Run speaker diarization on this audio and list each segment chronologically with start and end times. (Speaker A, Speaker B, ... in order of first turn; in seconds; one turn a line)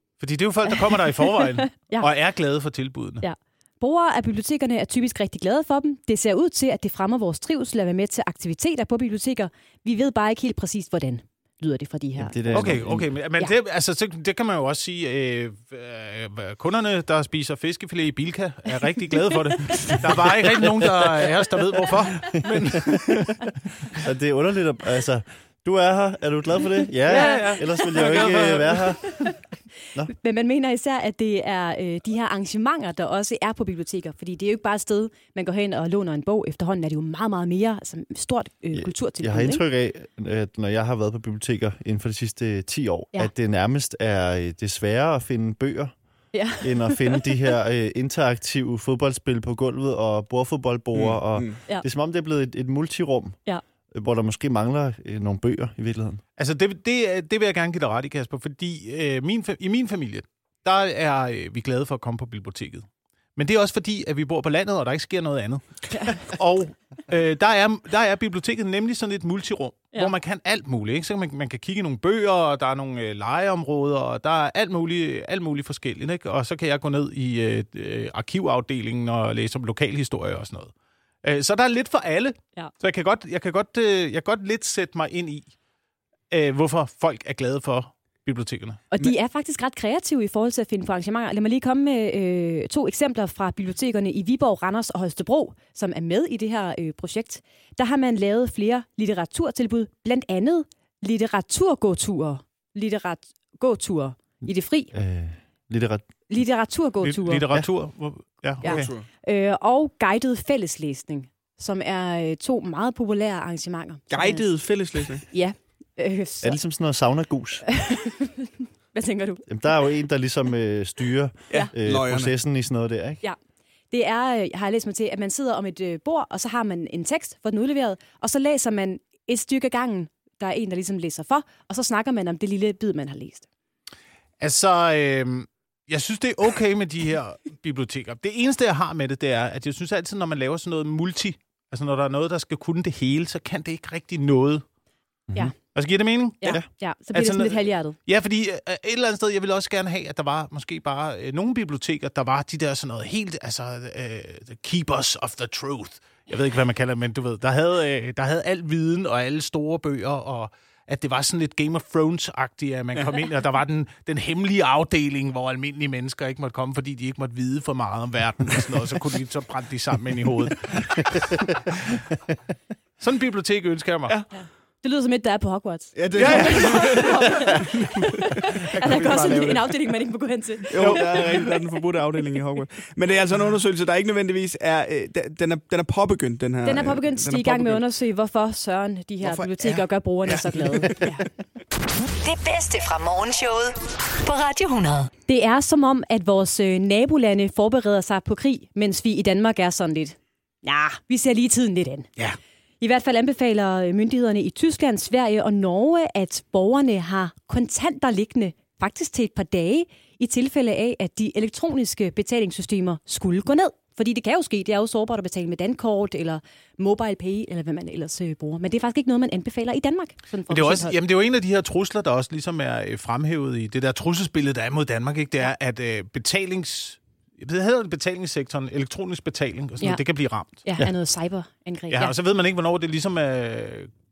Speaker A: 0.2-3.2
Speaker B: 0.8-2.1
Speaker B: 3.2-12.7
Speaker C: 12.2-13.1
Speaker A: 12.5-23.3
Speaker B: 19.6-20.0
Speaker C: 23.9-29.2
Speaker B: 27.1-28.2
Speaker A: 27.1-29.0
Speaker B: 29.1-29.3
Speaker B: 30.1-39.6
Speaker C: 38.7-45.9
Speaker B: 46.3-47.3
Speaker C: 46.6-53.4
Speaker D: 50.9-51.6
Speaker C: 53.9-56.2
Speaker A: 56.4-62.8
Speaker A: 63.4-80.7
Speaker A: 81.2-85.5
Speaker A: 86.3-88.8
Speaker B: 88.9-104.9
Speaker C: 104.9-106.0
Speaker B: 106.3-107.4
Speaker A: 107.0-108.9
Speaker D: 108.6-109.1
Speaker B: 108.6-114.5
Speaker D: 114.1-115.2
Speaker B: 115.3-116.6
Speaker C: 116.4-117.6
Speaker B: 117.6-119.4
Speaker C: 119.5-123.2
Speaker D: 121.5-122.3
Speaker B: 123.9-133.4
Speaker A: 134.4-144.6
Speaker A: 145.7-146.6
Speaker B: 146.4-147.9
Speaker A: 147.1-172.0
Speaker A: 173.0-174.2
Speaker B: 174.3-181.4
Speaker D: 175.9-179.0
Speaker A: 176.1-177.3
Speaker A: 178.6-179.7
Speaker D: 180.7-187.8
Speaker A: 180.7-181.3
Speaker B: 186.6-191.2
Speaker D: 189.2-191.1
Speaker E: 192.0-195.1
Speaker B: 195.3-202.1
Speaker B: 202.8-220.9
Speaker A: 220.5-230.5
Speaker B: 230.6-232.1
Speaker A: 231.9-233.9